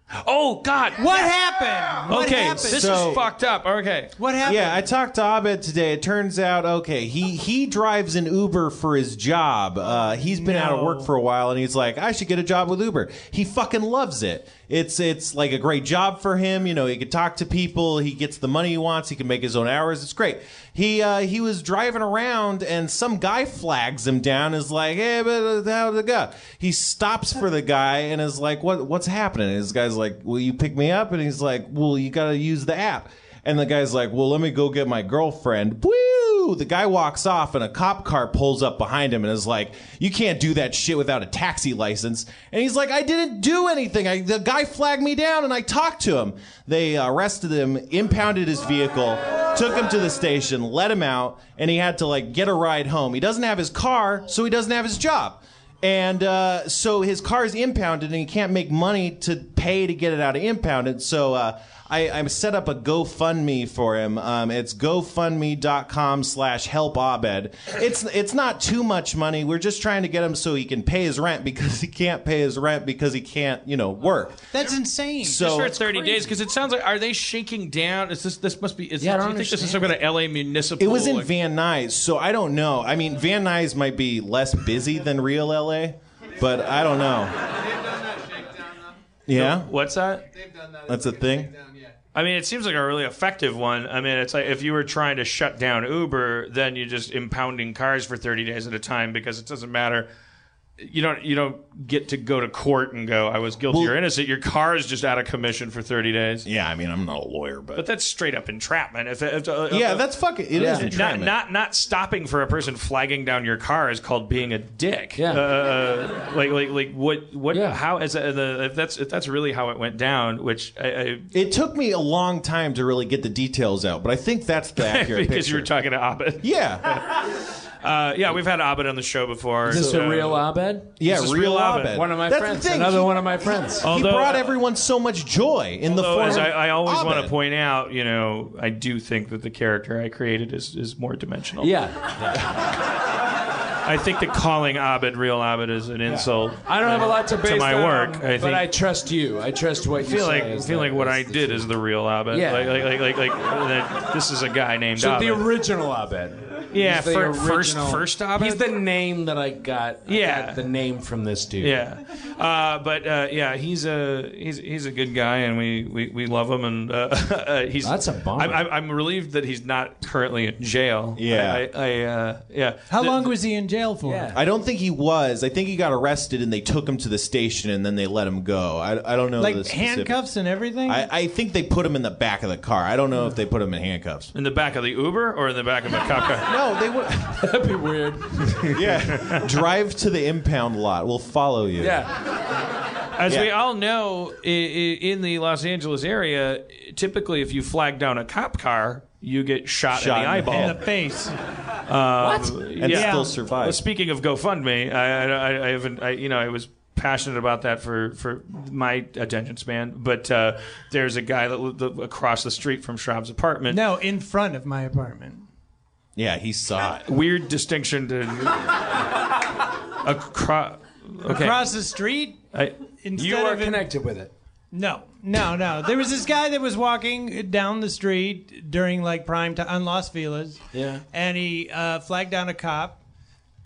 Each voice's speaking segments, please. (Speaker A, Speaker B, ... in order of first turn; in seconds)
Speaker A: 0.1-1.3, 2.1-4.2, 75.3-81.3, 89.3-90.3, 92.1-100.1, 100.8-106.5, 107.8-110.0, 110.6-121.3, 124.8-130.5, 131.0-132.0, 133.8-134.5, 135.9-141.8, 143.8-148.7, 149.9-155.5, 156.7-158.7, 160.1-160.7, 161.6-173.3, 184.3-186.5, 189.1-189.4, 193.2-200.8, 201.9-213.8, 217.1-218.8, 220.0-221.7, 222.5-222.8
Speaker B: 1.0-3.2, 4.2-4.8, 10.2-11.1, 74.5-75.4, 172.9-174.3, 179.4-181.1, 200.5-201.3, 202.9-203.3, 213.7-215.4, 221.3-222.4, 223.0-223.9, 224.7-230.6, 231.1-233.0
Speaker C: 2.7-3.2, 4.4-74.7, 75.2-76.3, 80.8-87.5, 89.3-89.7, 90.9-91.5, 103.7-104.0, 106.4-107.8, 109.7-111.3, 121.3-125.7, 126.4-127.0, 131.0-137.3, 171.2-171.6, 174.3-180.2, 180.9-184.3, 186.5-187.4, 188.7-192.1, 199.9-200.8, 202.8-203.8, 216.2-217.1
Speaker D: 79.0-79.9, 110.6-110.9, 115.2-115.5, 117.5-117.8, 129.7-130.9, 131.9-133.9, 141.6-142.5, 146.1-151.7, 152.3-152.9, 155.0-161.8, 167.8-168.6, 174.0-174.4, 187.3-188.8, 191.8-192.1, 202.2-202.6, 223.2-224.3, 230.7-231.0
Speaker E: 87.4-89.0, 90.3-92.0